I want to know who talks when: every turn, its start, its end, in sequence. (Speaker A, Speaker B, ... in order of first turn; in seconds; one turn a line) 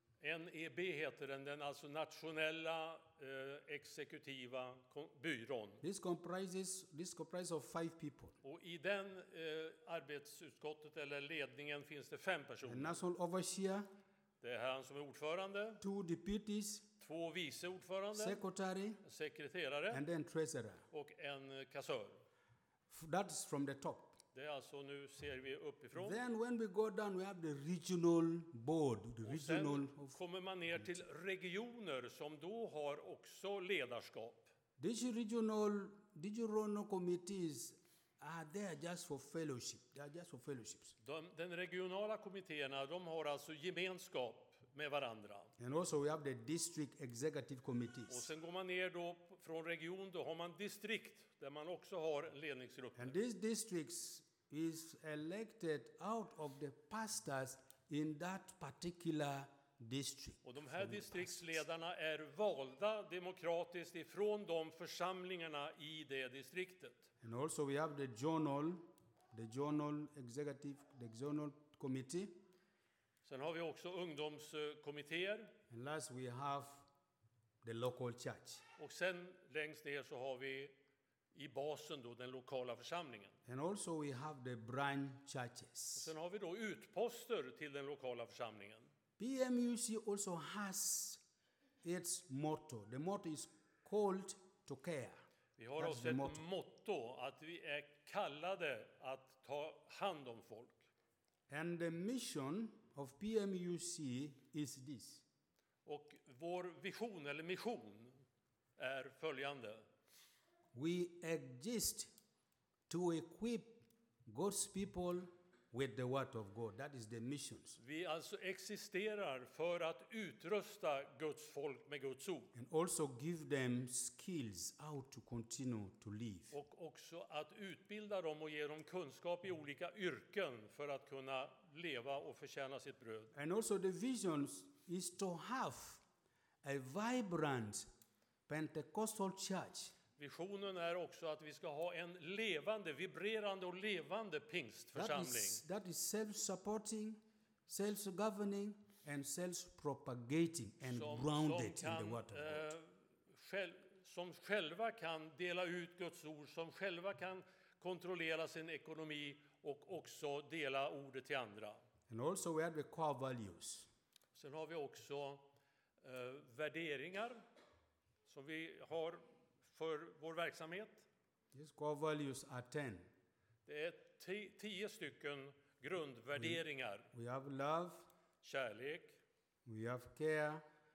Speaker A: 0.2-5.8
Speaker B: 5.8-8.4
Speaker A: 8.4-13.0
Speaker B: 12.6-13.9
Speaker A: 14.4-15.8
Speaker B: 15.8-16.9
Speaker A: 17.0-18.4
Speaker B: 18.1-19.0
Speaker A: 19.0-20.0
Speaker B: 19.9-20.8
Speaker A: 20.9-22.2
Speaker B: 22.9-24.2
Speaker A: 24.3-26.2
Speaker B: 25.9-30.2
Speaker A: 29.2-34.5
Speaker B: 34.8-40.9
Speaker A: 41.0-45.5
Speaker B: 45.6-48.3
Speaker A: 48.1-53.2
Speaker B: 53.0-61.6
Speaker A: 60.4-67.1
Speaker B: 67.2-72.3
Speaker A: 73.2-75.5
Speaker B: 75.7-76.9
Speaker B: 77.6-78.6
Speaker A: 78.8-80.7
Speaker A: 81.3-83.3
Speaker B: 83.5-86.1
Speaker A: 85.9-88.9
Speaker B: 89.2-91.2
Speaker B: 91.8-95.2
Speaker A: 95.6-100.9
Speaker B: 95.8-96.4
Speaker B: 101.5-105.2
Speaker A: 105.8-108.2
Speaker A: 108.8-109.8
Speaker B: 110.7-112.1
Speaker B: 112.9-117.8
Speaker A: 117.8-122.5
Speaker B: 122.5-126.5
Speaker A: 126.5-133.3
Speaker B: 133.3-136.0
Speaker B: 136.6-137.9
Speaker B: 138.5-139.9
Speaker A: 140.2-145.6
Speaker B: 144.9-152.7
Speaker A: 150.8-161.8
Speaker B: 162.1-163.9
Speaker A: 164.3-167.4
Speaker A: 168.2-171.1
Speaker B: 171.5-173.1
Speaker A: 173.7-177.1
Speaker B: 177.1-178.0
Speaker A: 178.4-179.2
Speaker B: 179.6-180.6